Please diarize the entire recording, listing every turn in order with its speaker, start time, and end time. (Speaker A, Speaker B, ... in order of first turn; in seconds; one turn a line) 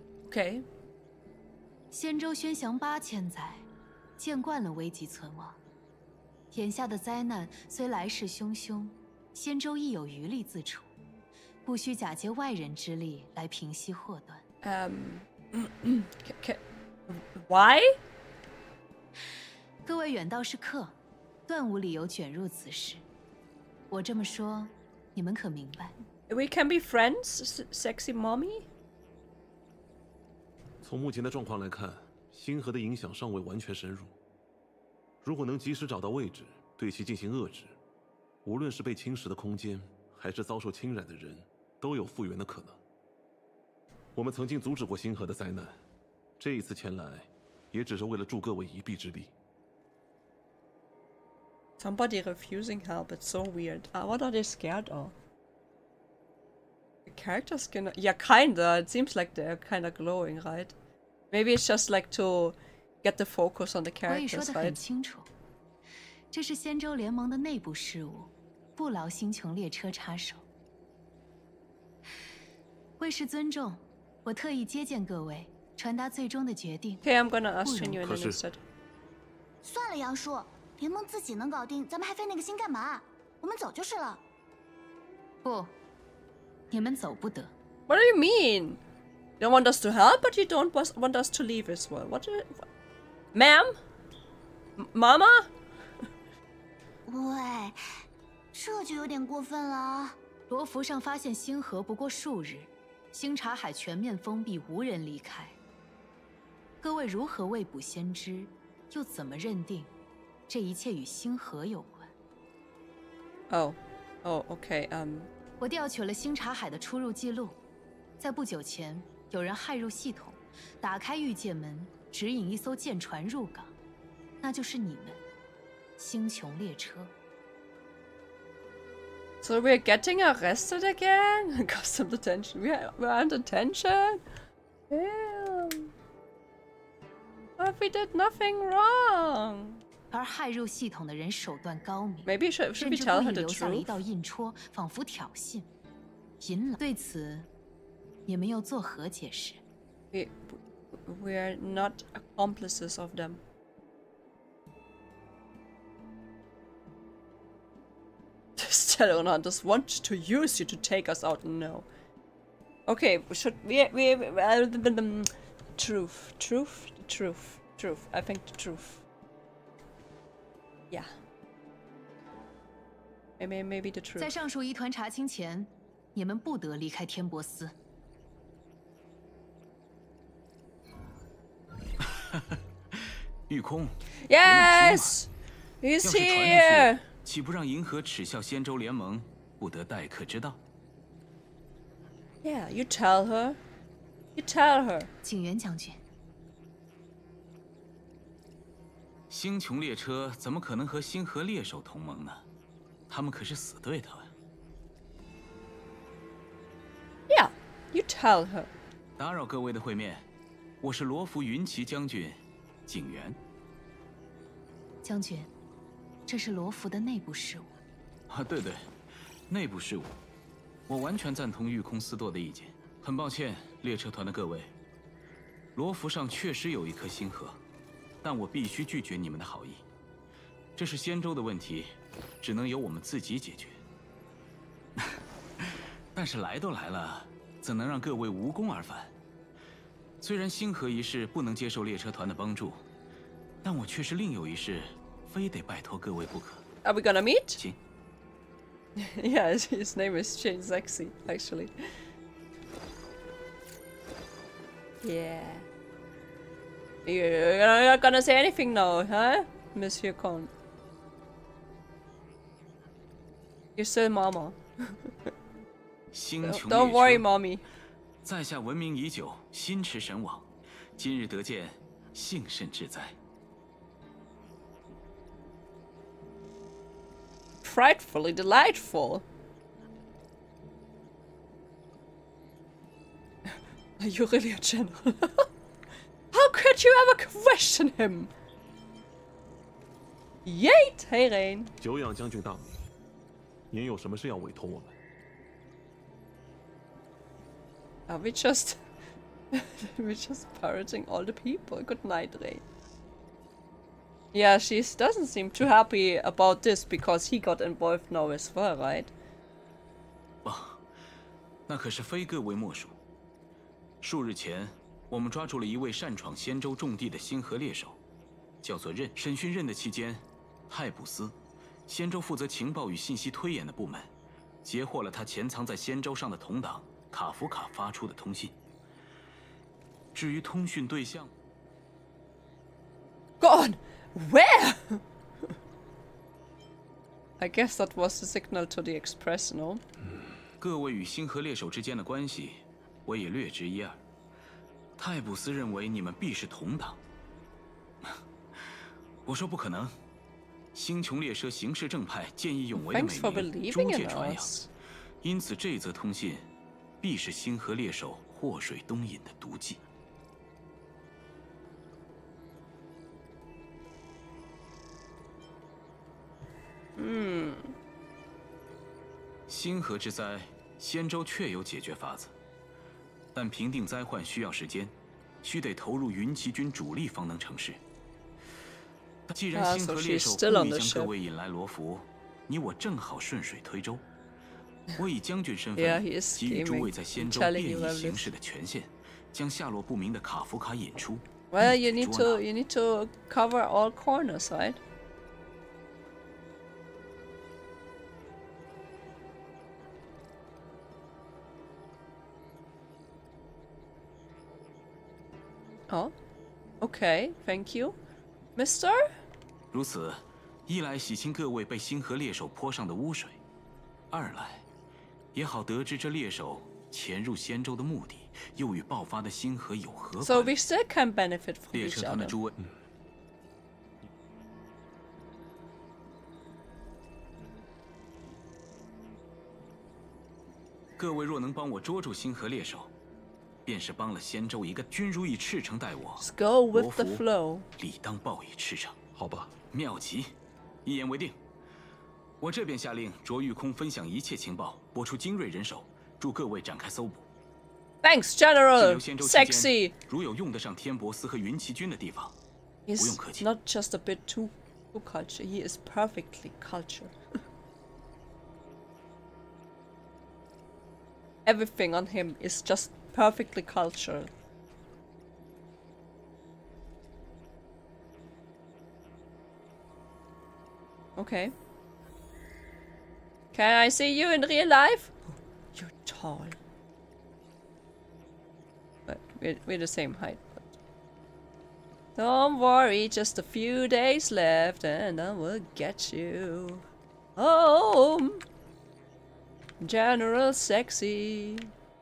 Speaker A: 0.3-0.6
Speaker B: 1.9-3.6
Speaker B: 4.2-5.6
Speaker B: 6.5-10.9
Speaker B: 11.6-14.4
Speaker A: 14.6-17.9
Speaker B: 19.8-20.9
Speaker B: 21.5-23.0
Speaker B: 23.9-25.9
Speaker A: 26.3-28.6
Speaker C: 30.8-34.1
Speaker C: 35.2-37.8
Speaker C: 38.4-42.8
Speaker C: 44.1-45.8
Speaker C: 46.4-49.3
Speaker A: 51.8-55.1
Speaker A: 57.1-60.7
Speaker A: 61.3-64.8
Speaker B: 64.1-65.3
Speaker B: 66.3-70.4
Speaker B: 73.0-77.0
Speaker A: 77.0-78.6
Speaker B: 77.6-78.0
Speaker C: 78.0-78.4
Speaker D: 79.6-84.2
Speaker B: 85.4-85.7
Speaker B: 86.7-87.5
Speaker A: 87.9-88.8
Speaker A: 89.4-92.6
Speaker A: 93.3-93.7
Speaker A: 94.8-95.5
Speaker D: 97.1-97.8
Speaker D: 98.5-100.2
Speaker B: 100.5-105.5
Speaker B: 106.8-109.9
Speaker B: 110.5-112.1
Speaker A: 113.5-115.3
Speaker B: 115.6-117.6
Speaker B: 118.2-123.7
Speaker B: 124.4-125.2
Speaker B: 126.0-127.1
Speaker A: 129.4-134.2
Speaker A: 134.9-135.9
Speaker A: 137.6-139.8
Speaker B: 140.1-145.7
Speaker A: 142.2-144.0
Speaker B: 146.4-147.5
Speaker B: 148.3-149.6
Speaker A: 150.1-153.4
Speaker A: 158.6-161.8
Speaker A: 162.9-169.0
Speaker A: 173.4-174.3
Speaker B: 174.2-177.7
Speaker E: 182.2-182.6
Speaker E: 183.5-185.2
Speaker A: 184.2-185.3
Speaker A: 185.8-187.0
Speaker E: 186.0-190.6
Speaker A: 192.4-193.6
Speaker A: 194.3-195.1
Speaker B: 195.2-196.0
Speaker E: 199.3-202.4
Speaker E: 203.1-204.3
Speaker A: 207.3-208.7
Speaker E: 209.2-210.2
Speaker E: 210.8-213.4
Speaker B: 215.0-215.5
Speaker B: 216.3-217.7
Speaker E: 218.3-218.8
Speaker E: 219.5-220.2
Speaker E: 220.9-224.7
Speaker E: 225.8-227.6
Speaker E: 228.2-229.8
Speaker E: 230.8-233.8
Speaker E: 235.0-239.1
Speaker E: 240.2-242.8
Speaker E: 243.6-246.6
Speaker A: 246.8-247.6
Speaker A: 248.9-251.7
Speaker A: 255.0-255.7
Speaker A: 257.0-260.5
Speaker A: 263.8-264.6
Speaker E: 266.1-267.2
Speaker A: 266.4-267.6
Speaker E: 268.2-273.1
Speaker A: 277.6-279.2
Speaker A: 284.0-285.5
Speaker A: 286.3-288.3
Speaker A: 290.4-291.7
Speaker C: 291.8-292.8
Speaker C: 293.7-294.9
Speaker A: 298.1-298.8
Speaker A: 299.5-302.6
Speaker A: 304.3-309.1
Speaker E: 310.4-310.8
Speaker E: 311.7-312.9
Speaker E: 314.0-318.0
Speaker E: 318.6-321.3
Speaker E: 321.9-324.1
Speaker E: 324.6-328.5
Speaker E: 330.1-331.3
Speaker A: 333.4-335.0
Speaker A: 337.4-339.8
Speaker E: 340.6-344.0
Speaker E: 345.0-347.0
Speaker E: 348.0-348.6
Speaker E: 349.2-349.9
Speaker E: 350.7-354.6
Speaker A: 352.7-354.7
Speaker E: 355.2-356.5
Speaker E: 357.0-359.8
Speaker A: 367.0-367.7
Speaker E: 369.5-372.3
Speaker E: 373.3-377.8
Speaker E: 379.3-384.0
Speaker A: 379.5-381.1
Speaker E: 384.9-392.4
Speaker A: 385.8-388.3
Speaker A: 391.5-394.8
Speaker A: 406.8-408.0
Speaker A: 408.6-409.0
Speaker E: 409.7-413.4
Speaker E: 414.1-414.6
Speaker E: 415.3-420.5
Speaker A: 420.2-422.4
Speaker E: 421.7-422.5
Speaker E: 431.0-432.9
Speaker E: 433.6-437.2
Speaker A: 436.2-437.6
Speaker E: 437.8-438.9
Speaker C: 439.1-439.6
Speaker E: 439.7-440.3
Speaker E: 440.8-441.4
Speaker E: 442.4-447.2
Speaker A: 448.0-449.9
Speaker E: 448.7-452.3
Speaker A: 452.9-457.1
Speaker E: 453.0-453.5
Speaker A: 461.4-464.3
Speaker A: 471.1-471.5
Speaker A: 473.5-476.6
Speaker A: 479.1-480.7
Speaker A: 482.1-486.8
Speaker A: 487.4-488.4
Speaker A: 489.8-491.7